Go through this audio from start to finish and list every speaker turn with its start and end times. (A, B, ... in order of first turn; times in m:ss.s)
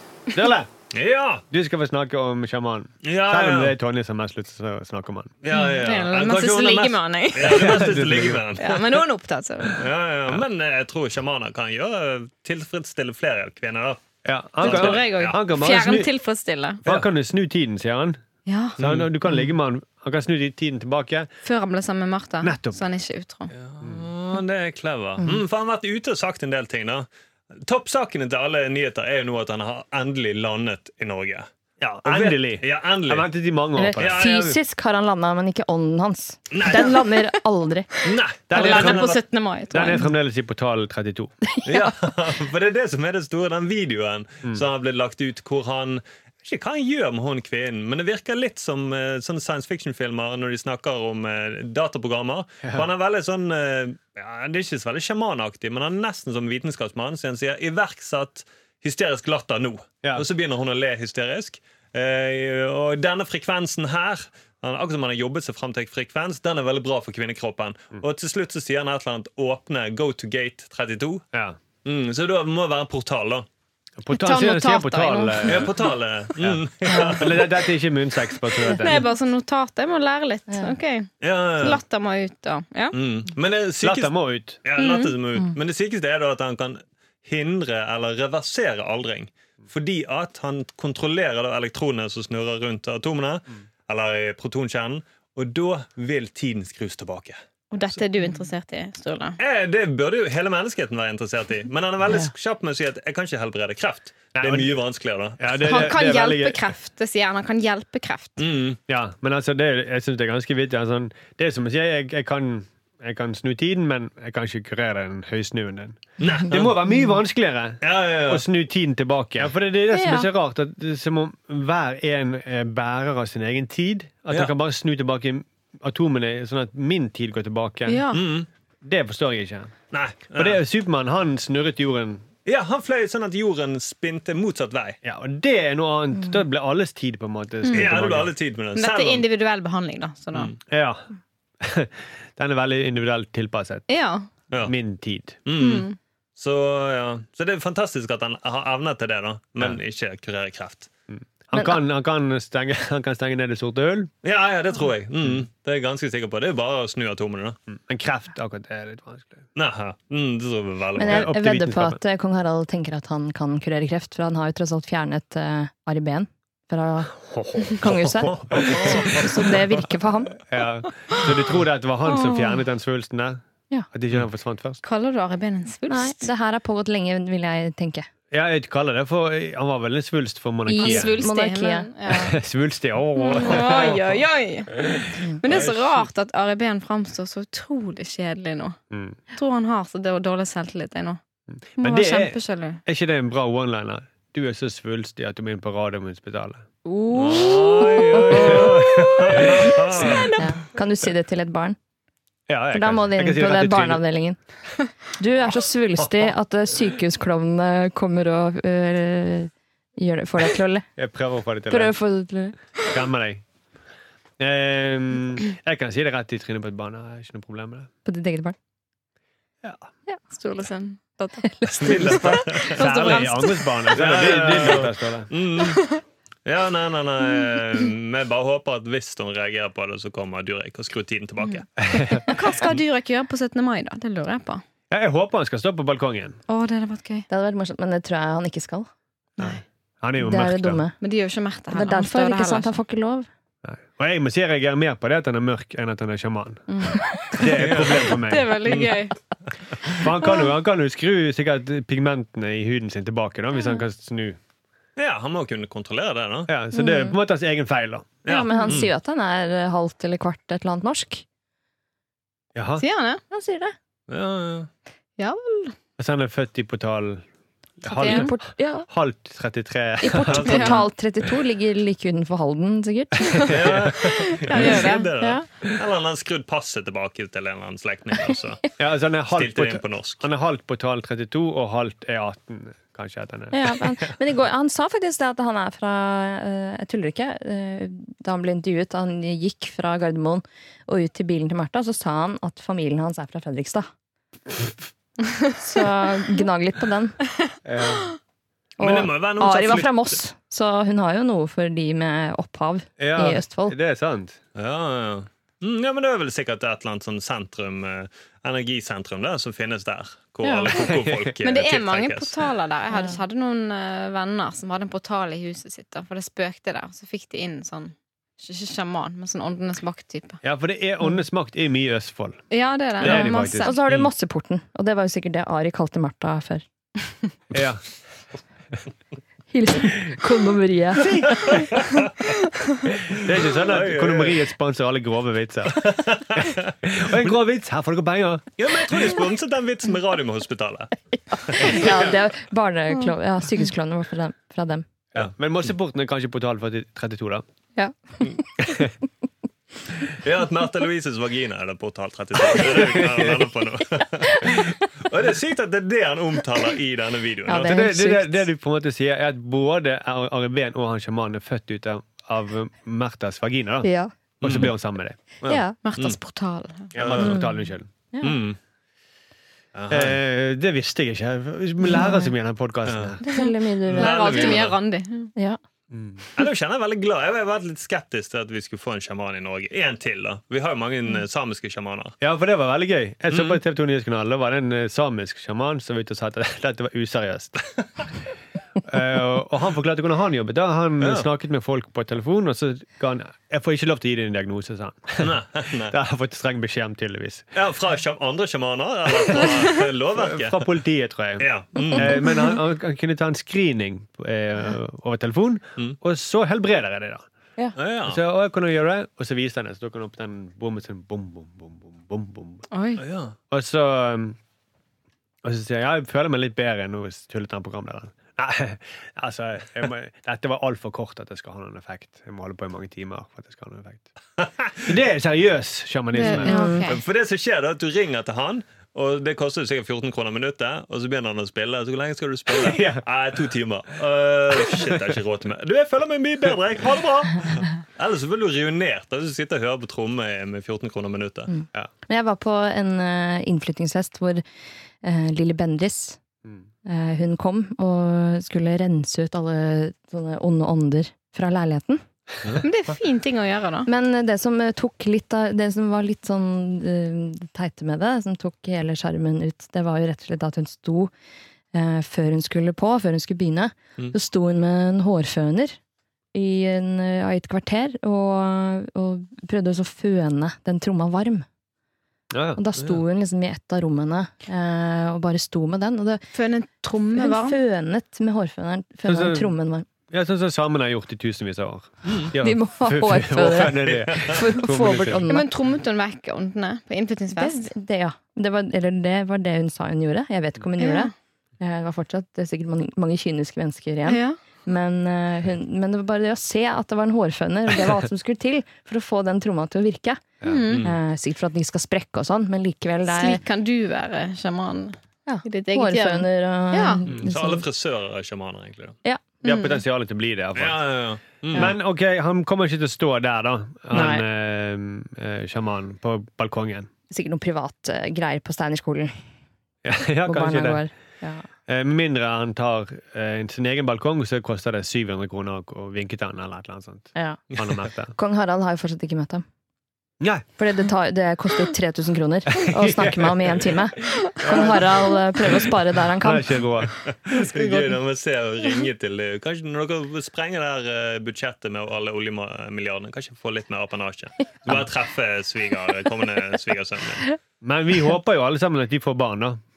0:00.3-0:00.7 A
0:00.9-0:01.4 B
0:01.5-0:05.3 A
0:03.0-0:03.7 B
0:05.4-0:09.0 B
0:05.5-0:07.9 C
0:07.4-0:08.4 A
0:08.6-0:09.8 C
0:09.7-0:14.0 B
0:14.2-0:16.1 A
0:14.6-0:15.4 B
0:14.6-0:16.8 C
0:16.8-0:18.2 A
0:18.4-0:18.8 C
0:18.8-0:21.3 A
0:18.8-0:19.1 B
0:21.4-0:23.5 C
0:22.4-0:22.8 A
0:23.5-0:27.1 B
0:27.6-0:33.3 B
0:32.0-0:34.4 A
0:33.8-0:37.9 D
0:34.0-0:34.6 B
0:36.5-0:37.0 B
0:38.0-0:39.2 B
0:38.5-0:39.2 A
0:38.5-0:40.1 C
0:39.7-0:41.4 A
0:41.6-1:11.2 B
0:52.6-0:52.9 A
1:11.3-1:11.6 A
1:11.8-1:13.4 B
1:14.0-1:15.8 A
1:14.1-1:15.6 C
1:15.4-1:17.6 B
1:16.4-1:19.0 A
1:18.6-1:21.1 C
1:20.5-1:20.7 D
1:21.2-1:21.8 B
1:21.6-1:22.9 C
1:22.9-1:24.1 B
1:23.8-1:24.6 A
1:24.6-1:37.4 B
1:24.8-1:25.1 C
1:37.7-1:39.4 C
1:39.4-1:45.8 B
1:44.3-1:44.7 A
1:45.4-1:46.7 A
1:45.6-1:48.4 C
1:48.4-1:48.8 B
1:48.9-2:08.1 A
1:56.2-1:56.8 B
1:57.8-1:58.4 B
1:59.9-2:00.3 C
2:07.8-2:08.2 C
2:08.1-2:08.5 B
2:08.8-2:09.7 A
2:09.9-2:10.6 B
2:10.3-2:12.2 A
2:12.4-2:15.0 B
2:15.0-2:18.3 A
2:17.6-2:17.9 C
2:17.7-2:19.2 B
2:18.8-2:20.5 C
2:20.7-2:21.0 A
2:21.6-2:23.9 A
2:23.9-2:24.3 C
2:24.6-2:25.4 A
2:25.4-2:30.9 B
2:25.6-2:26.0 C
2:31.1-2:34.1 A
2:31.5-2:31.8 D
2:34.2-2:37.6 B
2:37.7-2:39.4 A
2:39.6-2:41.3 B
2:41.0-2:50.3 D
2:41.0-2:42.0 A
2:47.3-2:47.9 A
2:47.8-2:49.5 B
2:48.6-2:49.0 A
2:50.5-2:53.4 A
2:52.1-2:52.6 C
2:53.9-2:54.8 A
2:54.8-2:56.2 C
2:55.9-2:58.1 D
2:58.3-3:01.1 A
3:00.7-3:02.2 D
3:00.8-3:02.3 C
3:02.1-3:04.0 A
3:03.2-3:08.8 C
3:05.5-3:06.1 B
3:08.9-3:09.2 A
3:09.3-3:11.2 C
3:11.5-3:16.6 A
3:11.8-3:12.8 C
3:16.8-3:20.5 C
3:17.1-3:18.2 D
3:17.1-3:20.3 B
3:18.3-3:20.2 A
3:20.4-3:21.8 D
3:22.5-3:24.0 A
3:22.7-3:24.4 D
3:25.0-3:30.8 D
3:31.0-3:31.9 A
3:31.7-3:32.6 D
3:32.9-3:33.4 A
3:34.4-3:37.9 A
3:38.0-3:38.6 D
3:40.3-3:43.7 C
3:41.4-3:43.6 D
3:41.6-3:43.2 B
3:42.7-3:45.3 A
3:43.9-3:51.8 B
3:51.8-3:52.3 A
3:52.2-3:54.6 C
3:54.9-3:56.4 A
3:56.5-3:57.3 C
3:57.3-3:58.9 D
3:59.4-4:00.8 A
4:00.2-4:01.0 D
4:01.0-4:02.7 C
4:01.7-4:03.3 D
4:03.6-4:06.7 A
4:06.7-4:09.2 C
4:07.3-4:08.6 A
4:07.4-4:09.0 B
4:09.9-4:14.4 A
4:15.0-4:16.5 B
4:16.5-4:18.1 A
4:16.7-4:17.2 D
4:18.2-4:18.9 B
4:18.2-4:21.2 D
4:22.5-4:22.8 A
4:22.8-4:23.2 C
4:23.3-4:23.7 D
4:24.1-4:24.7 B
4:25.2-4:25.8 C
4:26.0-4:27.2 A
4:27.8-4:30.8 A
4:27.9-4:28.9 D
4:27.9-4:28.3 C
4:30.0-4:33.5 D
4:30.3-4:30.8 B
4:30.3-4:30.8 C
4:33.5-4:34.9 A
4:33.5-4:38.7 B
4:34.0-4:35.1 C
4:35.2-4:35.4 D
4:38.8-4:44.0 A
4:39.3-4:40.2 B
4:43.5-4:53.9 D
4:55.6-4:57.2 D
4:57.6-4:58.1 A
4:58.8-5:03.7 D
4:58.8-5:00.2 B
5:03.0-5:04.4 A
5:04.5-5:12.5 B
5:10.4-5:10.7 D
5:10.9-5:11.3 A
5:11.4-5:20.4 C
5:12.9-5:13.2 D
5:20.4-5:22.5 A
5:22.5-5:23.7 C
5:23.0-5:23.7 A
5:23.1-5:26.6 D
5:27.5-5:27.8 A
5:29.5-5:31.2 D
5:31.0-5:31.6 A
5:31.3-5:32.1 B
5:33.0-5:38.5 A
5:33.1-5:34.4 B
5:35.7-5:36.7 B
5:38.6-5:42.1 B
5:41.5-5:44.8 D
5:45.1-5:47.4 A
5:47.8-5:48.4 D
5:50.1-5:57.8 B
5:52.6-5:53.5 A
5:57.5-5:58.5 D
5:57.6-6:03.9 A
6:03.8-6:04.1 D
6:04.4-6:05.2 A
6:04.4-6:04.7 B
6:05.4-6:06.2 B
6:05.4-6:05.8 D
6:05.8-6:06.9 C
6:06.9-6:07.9 A
6:07.0-6:07.4 B
6:07.2-6:08.4 D
6:08.2-6:08.6 B
6:09.7-6:10.2 B
6:09.9-6:13.2 A
6:11.9-6:12.3 D
6:12.8-6:13.2 B
6:13.2-6:14.6 D
6:13.4-6:15.3 C
6:13.9-6:14.8 B
6:15.9-6:16.2 A
6:16.4-6:22.1 B
6:22.2-6:27.6 A
6:23.3-6:23.6 B
6:28.8-6:37.5 A
6:31.0-6:31.3 B
6:35.2-6:36.0 B
6:37.5-6:40.7 B
6:40.1-6:47.2 A
6:41.4-6:42.1 B
6:47.8-6:48.2 B
6:48.0-6:52.6 A
6:52.7-6:53.0 C
6:53.0-6:53.4 B
6:53.5-6:54.4 A
6:55.4-7:04.1 A
7:04.4-7:04.9 B
7:04.8-7:06.5 A
7:06.1-7:07.0 C
7:06.3-7:06.9 D
7:06.8-7:21.5 B
7:12.5-7:13.0 A
7:14.6-7:15.0 A
7:21.5-7:24.4 D
7:25.0-7:26.2 D
7:26.8-7:32.0 D
7:32.6-7:33.9 C
7:33.8-7:41.1 D
7:41.7-7:45.8 D
7:46.3-7:51.4 D
7:52.3-7:52.6 A
7:52.6-7:56.2 D
7:56.3-7:57.6 C
7:57.1-7:59.8 D
7:59.0-7:59.5 A
8:00.1-8:05.2 A
8:02.0-8:02.3 B
8:02.4-8:05.5 D
8:03.9-8:04.4 B
8:05.3-8:07.7 C
8:07.4-8:20.2 D
8:10.8-8:11.1 C
8:14.0-8:14.4 C
8:20.4-8:20.7 A
8:20.4-8:20.9 C
8:20.6-8:20.9 B
8:20.8-8:23.4 D
8:23.1-8:27.0 C
8:25.3-8:27.6 D
8:27.1-8:29.0 B
8:29.4-8:30.8 A
8:29.4-8:29.8 C
8:30.6-8:31.7 B
8:31.5-8:36.9 A
8:33.9-8:34.2 D
8:37.1-8:39.2 D
8:39.8-8:40.8 A
8:40.2-8:41.5 D
8:41.7-8:48.1 A
8:47.1-8:47.4 D
8:48.1-8:49.4 D
8:50.2-8:50.4 A
8:50.6-8:56.6 D
8:52.5-8:57.8 A
8:57.0-9:07.2 B
8:57.3-8:57.8 D
9:07.6-9:09.6 A